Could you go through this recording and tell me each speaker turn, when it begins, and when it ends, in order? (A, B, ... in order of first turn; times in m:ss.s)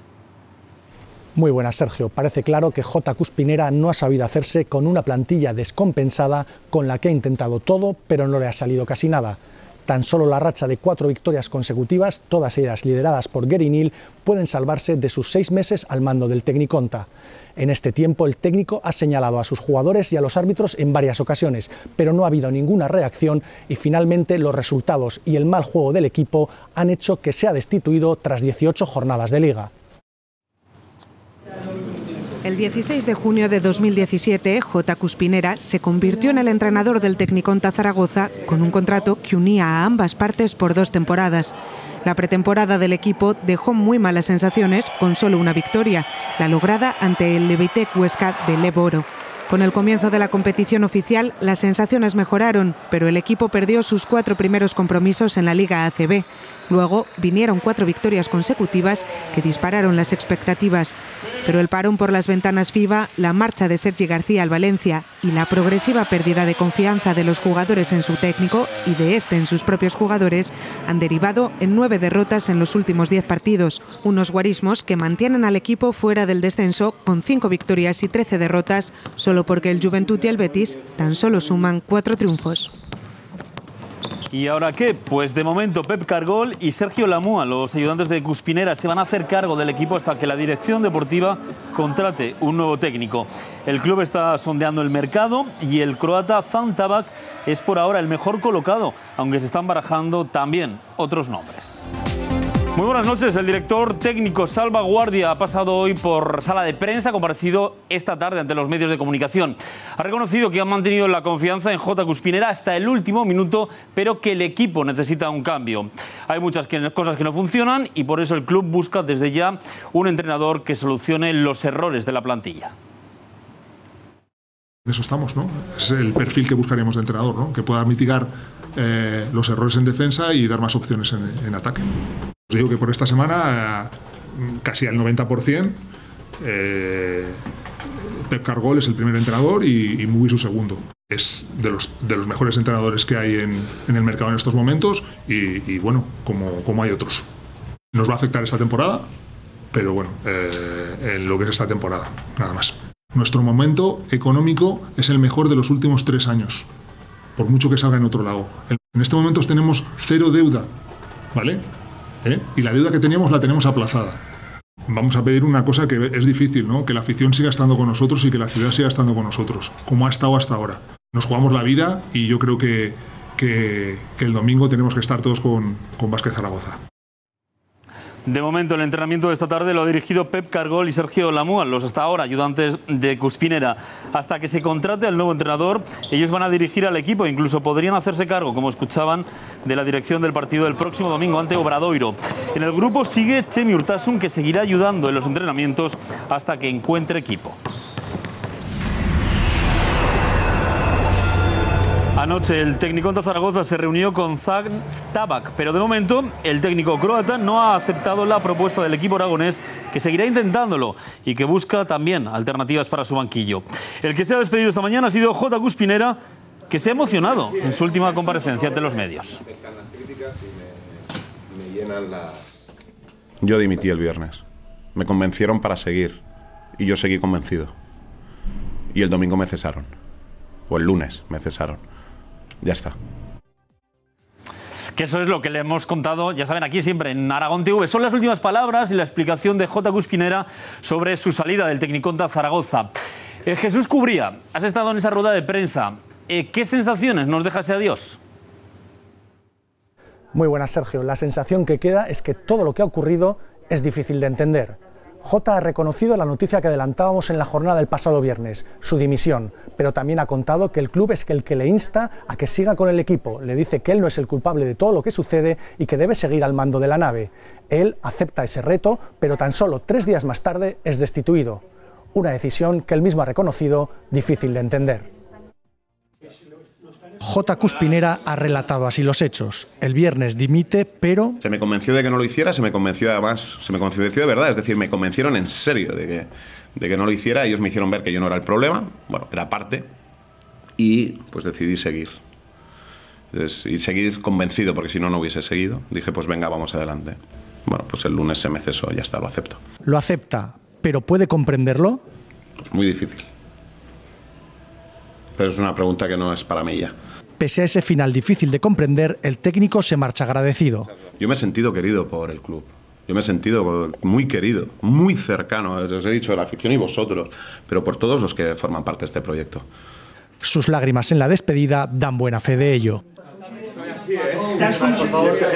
0:01.4-0:29.7 A
0:32.4-1:22.7 B
1:24.3-1:41.9 C
1:42.7-2:02.7 C
2:04.9-2:15.8 D
2:16.4-2:17.4 D
2:18.3-2:27.3 D
2:27.9-2:29.1 D
2:29.7-2:36.7 D
2:37.4-2:40.7 D
2:41.3-2:41.6 D
2:42.2-2:44.2 D
2:44.9-2:56.8 D
2:58.3-3:17.6 C
3:22.2-3:36.2 C
3:36.7-3:39.4 C
3:39.6-3:40.4 E
3:41.6-3:42.3 E
3:43.4-3:44.4 E
3:45.0-3:46.2 E
3:46.8-3:47.7 E
3:48.9-3:49.9 E
3:50.7-3:51.8 E
3:52.6-3:53.0 E
3:55.0-4:02.9 C
4:03.4-4:08.2 C
4:10.3-4:31.6 A
4:32.1-4:35.1 A
4:37.2-4:41.4 A
4:41.4-4:49.9 E
4:50.8-4:52.2 E
4:53.3-4:59.6 E
4:59.8-5:02.0 A
5:02.7-5:03.3 E
5:05.4-5:07.0 E
5:07.4-5:10.9 A
5:11.2-5:19.7 E
5:20.4-5:23.0 A